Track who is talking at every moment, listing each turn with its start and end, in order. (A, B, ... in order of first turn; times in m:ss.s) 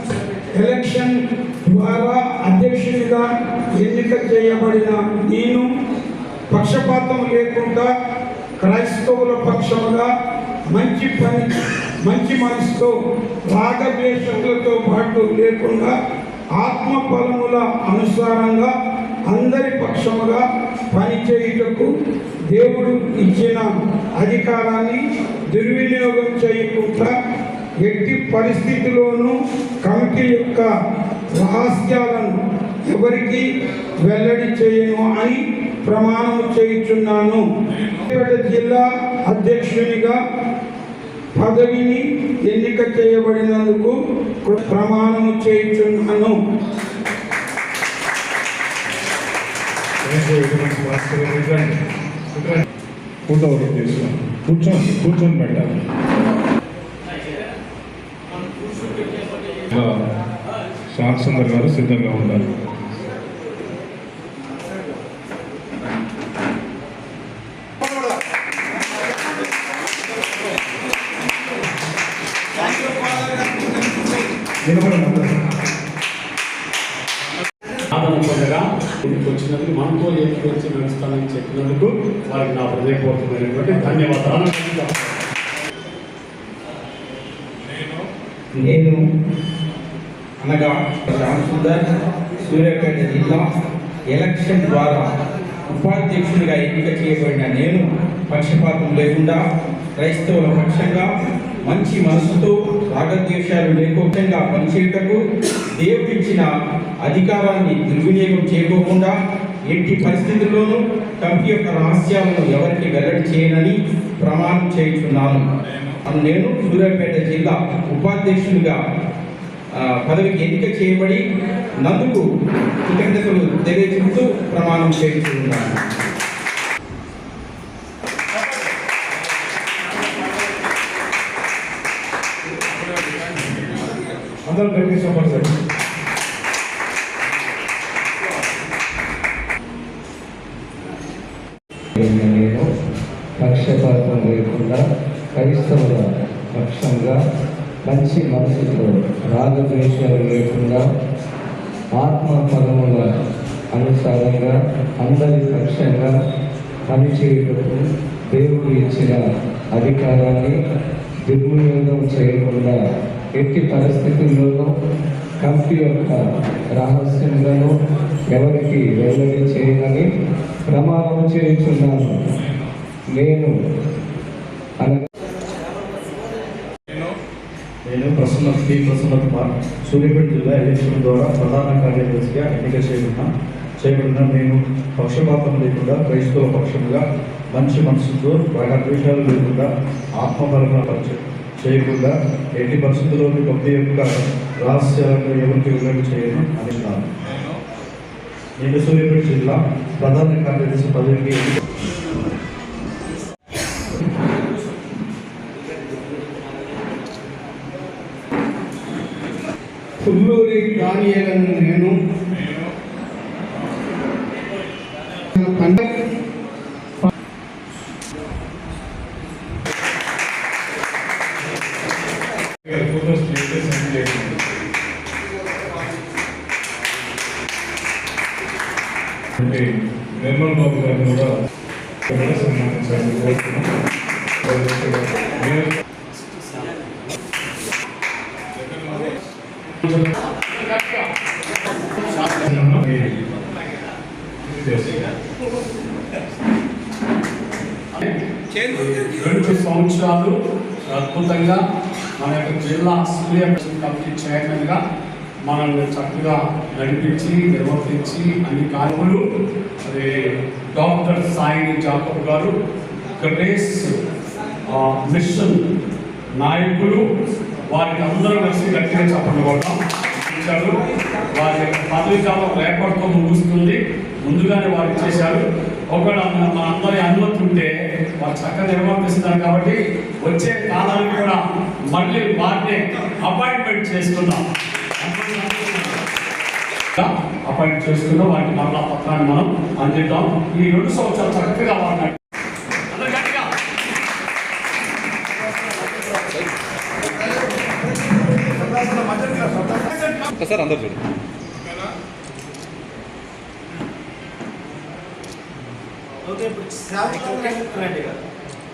0:00.6-0:03.2 A
0:03.8-0:05.7 A
0:06.5-0:07.9 A
0:08.6-0:10.1 A
0:10.7-0:11.5 A
0:12.0-0:12.9 A
0:13.5-0:16.0 A
0:16.6-0:18.7 A
0:19.3-0:21.9 A
0:22.5-0:23.7 A
0:24.2-0:27.1 A
0:27.8-0:30.7 A
0:31.4-0:32.4 A
0:32.9-0:33.4 A
0:34.0-0:37.4 A
0:38.1-0:40.2 A
0:41.4-0:46.4 A
0:50.0-0:51.8 B
0:52.4-0:52.6 B
0:53.3-0:55.7 B
1:00.9-1:02.5 B
1:14.8-1:15.0 B
1:17.9-1:24.9 C
1:28.6-1:29.0 D
1:30.4-1:31.8 D
1:32.4-1:33.4 D
1:34.1-1:35.0 D
1:35.7-1:39.4 D
1:40.0-1:41.1 D
1:41.7-1:45.2 D
1:45.8-1:46.5 D
1:47.0-1:49.1 D
1:49.7-1:55.4 D
1:56.0-1:58.8 D
1:59.8-2:01.2 D
2:01.8-2:02.2 D
2:02.9-2:05.8 D
2:14.5-2:15.5 B
2:22.0-2:22.6 E
2:23.4-2:24.8 E
2:25.4-2:26.0 E
2:26.6-2:27.2 E
2:27.9-2:30.8 E
2:32.0-2:33.0 E
2:33.7-2:36.2 E
2:36.9-2:39.2 E
2:39.8-2:40.6 E
2:41.3-2:42.8 E
2:43.4-2:44.7 E
2:45.4-2:46.2 E
2:46.8-2:47.7 E
2:48.3-2:50.1 E
2:50.7-2:52.2 E
2:53.2-2:53.5 E
2:57.9-3:03.3 F
3:03.8-3:09.7 F
3:10.2-3:17.0 F
3:18.6-3:21.6 F
3:30.0-3:31.9 D
3:30.1-3:31.8 A
3:35.4-3:35.8 D
3:42.6-3:44.4 B
3:49.4-3:51.3 B
3:52.1-3:53.7 B
3:54.4-3:55.7 B
3:58.6-3:59.1 B
3:59.8-4:01.1 C
4:02.4-4:03.1 B
4:04.5-4:05.0 B
4:08.7-4:10.3 C
4:10.9-4:11.6 C
4:12.2-4:14.8 C
4:15.5-4:19.2 C
4:20.8-4:22.5 C
4:23.2-4:23.9 C
4:24.7-4:25.6 C
4:26.4-4:27.0 C
4:27.7-4:30.8 C
4:31.4-4:41.4 C
4:41.9-4:44.4 C
4:45.0-4:46.0 C
4:47.0-4:52.2 C
4:52.9-4:53.5 C
4:58.6-4:59.9 G
5:06.3-5:08.2 G